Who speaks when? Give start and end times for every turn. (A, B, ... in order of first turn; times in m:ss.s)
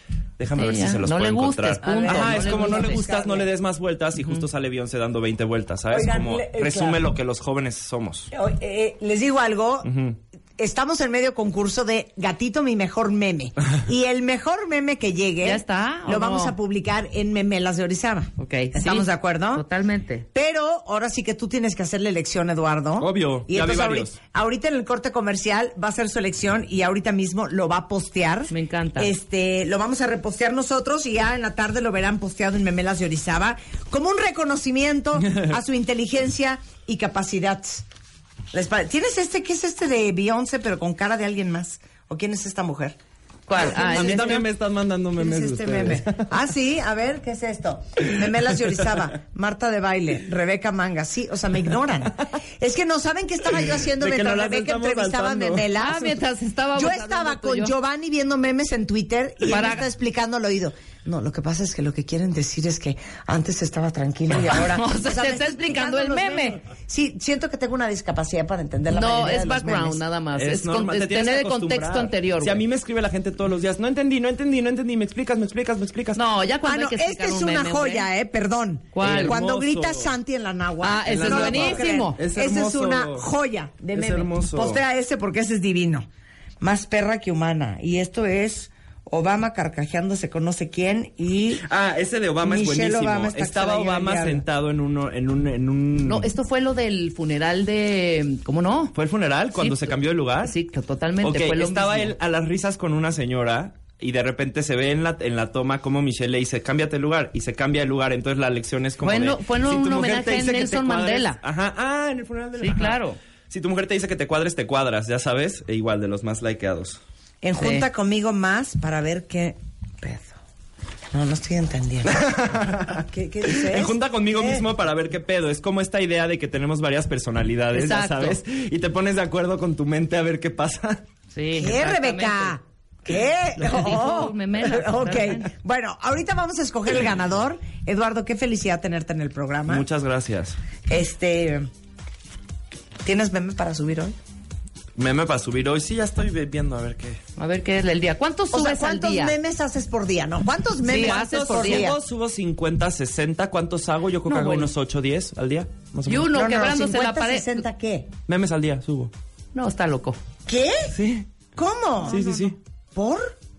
0:00.4-0:08.3 A
0:00.6-0:03.1 B
0:01.8-0:03.5 C
0:05.9-0:07.0 C
0:08.3-0:09.9 C
0:09.8-0:10.2 A
0:10.6-0:19.6 C
0:15.4-0:16.6 B
0:18.4-0:20.3 B
0:20.3-0:37.8 C
0:23.0-0:24.1 A
0:28.5-0:29.1 B
0:38.5-0:43.0 C
0:43.5-0:44.4 B
0:43.5-0:44.5 C
0:43.6-0:46.3 A
0:45.2-0:56.2 C
0:53.8-0:55.7 A
0:55.8-0:57.7 B
0:56.8-1:10.0 C
0:59.4-0:59.9 B
1:04.4-1:06.6 B
1:08.9-1:12.6 B
1:10.4-1:16.2 A
1:16.2-1:18.1 B
1:16.6-1:26.1 C
1:18.9-1:19.4 B
1:19.0-1:20.1 A
1:20.8-1:22.2 B
1:21.0-1:23.3 A
1:23.9-1:24.8 A
1:26.6-1:31.6 C
1:31.6-1:36.3 A
1:32.4-1:34.4 C
1:36.0-1:39.0 B
1:38.9-1:40.6 A
1:39.6-1:42.2 B
1:41.2-1:53.0 A
1:49.0-1:51.4 B
1:52.6-1:53.2 B
1:53.5-1:57.0 A
1:57.4-2:00.4 C
1:57.6-1:57.9 B
2:01.1-2:04.6 C
2:02.0-2:11.0 A
2:07.7-2:08.4 B
2:11.3-2:12.6 B
2:11.5-2:19.8 C
2:13.6-2:15.5 B
2:19.7-2:20.6 A
2:20.9-2:21.7 C
2:23.0-2:24.2 C
2:25.0-2:27.2 A
2:27.4-2:29.4 B
2:28.5-2:32.0 C
2:30.8-2:31.9 B
2:30.9-2:36.3 A
2:34.3-2:34.7 B
2:36.1-2:37.6 B
2:36.3-2:38.1 C
2:38.3-2:39.1 A
2:39.6-2:40.2 B
2:40.5-2:41.0 C
2:40.9-2:41.3 A
2:41.6-2:43.4 C
2:42.0-2:42.6 A